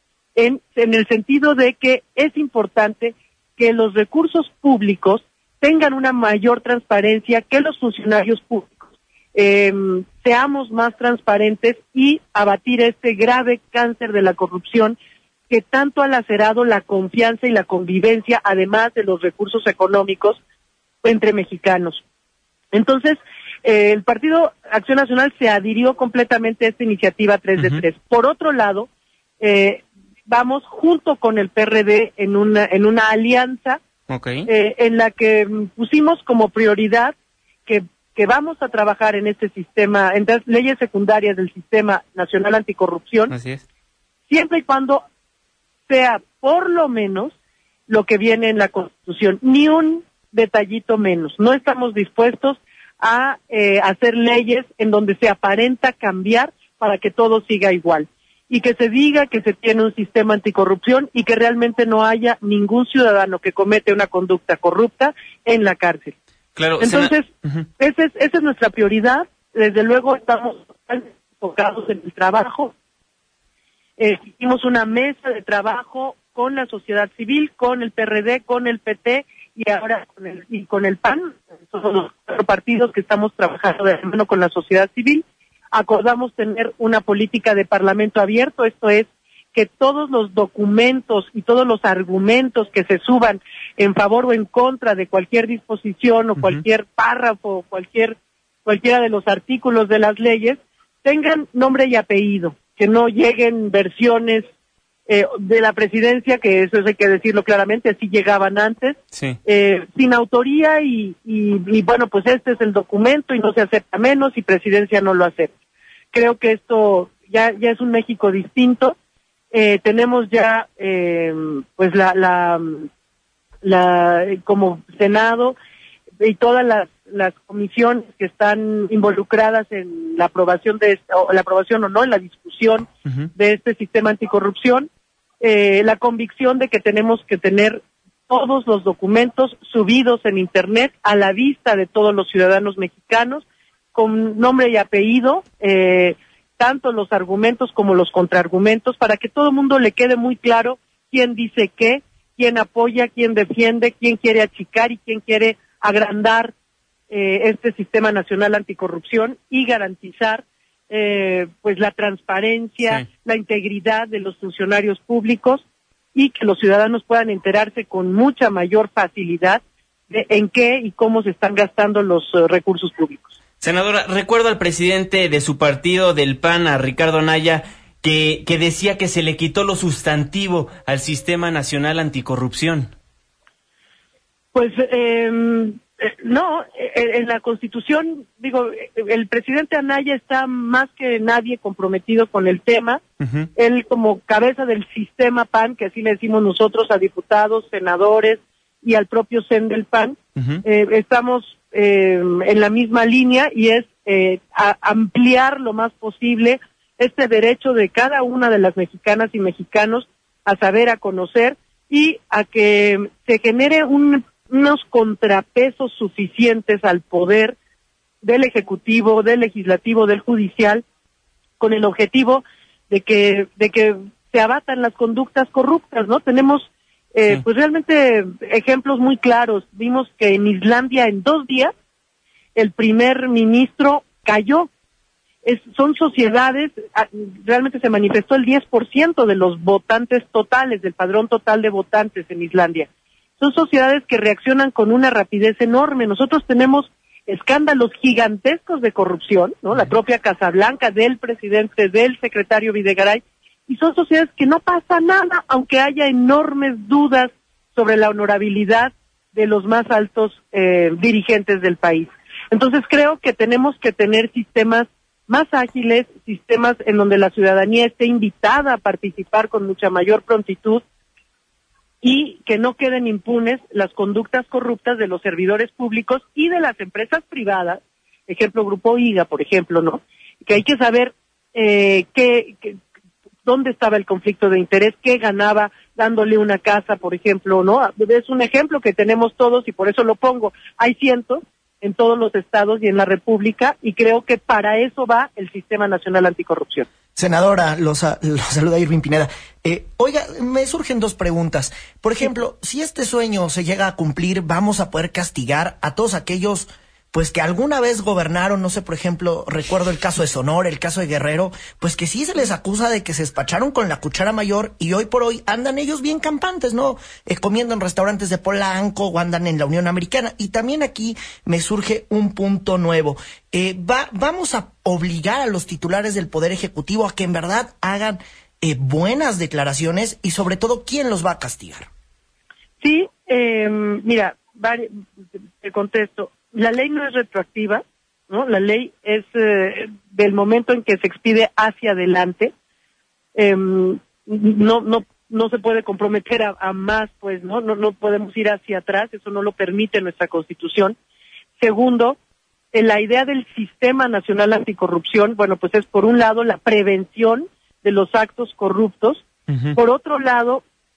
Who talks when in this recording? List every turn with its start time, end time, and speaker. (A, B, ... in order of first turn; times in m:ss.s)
0:00.4-0:15.0 A
0:15.5-0:20.4 A
0:21.0-0:22.0 A
0:22.7-0:28.9 A
0:27.6-0:27.8 B
0:29.4-0:33.8 A
0:34.1-0:34.5 B
0:34.5-0:37.2 A
0:37.7-0:43.3 A
0:43.3-0:43.6 B
0:44.3-0:45.0 A
0:45.9-0:47.3 A
0:47.9-1:06.1 A
1:06.6-1:07.7 B
1:06.8-1:07.3 A
1:07.8-1:12.7 A
1:14.0-1:44.5 A
1:45.1-1:55.5 A
1:49.1-1:49.4 B
1:56.1-1:59.0 A
1:59.5-2:02.9 A
2:03.6-2:05.6 A
2:06.2-2:14.9 A
2:15.4-2:36.5 A
2:37.1-2:45.6 A
2:46.2-2:53.3 A
2:53.6-3:02.9 B
3:04.5-3:13.0 A
3:13.2-3:13.5 B
3:13.6-3:37.6 A
3:20.4-3:20.6 B
3:38.2-3:40.8 A
3:41.6-3:51.7 A
3:52.6-3:54.7 A
3:55.4-4:02.9 A
4:03.4-4:30.8 A
4:32.0-4:42.8 A
4:43.4-4:56.9 A
4:57.2-5:31.9 C
5:32.8-5:35.0 A
5:35.6-5:42.5 A
5:43.4-5:51.0 A
5:51.6-5:52.2 A
5:52.7-5:59.2 A
5:59.5-5:59.8 B
5:59.8-6:00.6 A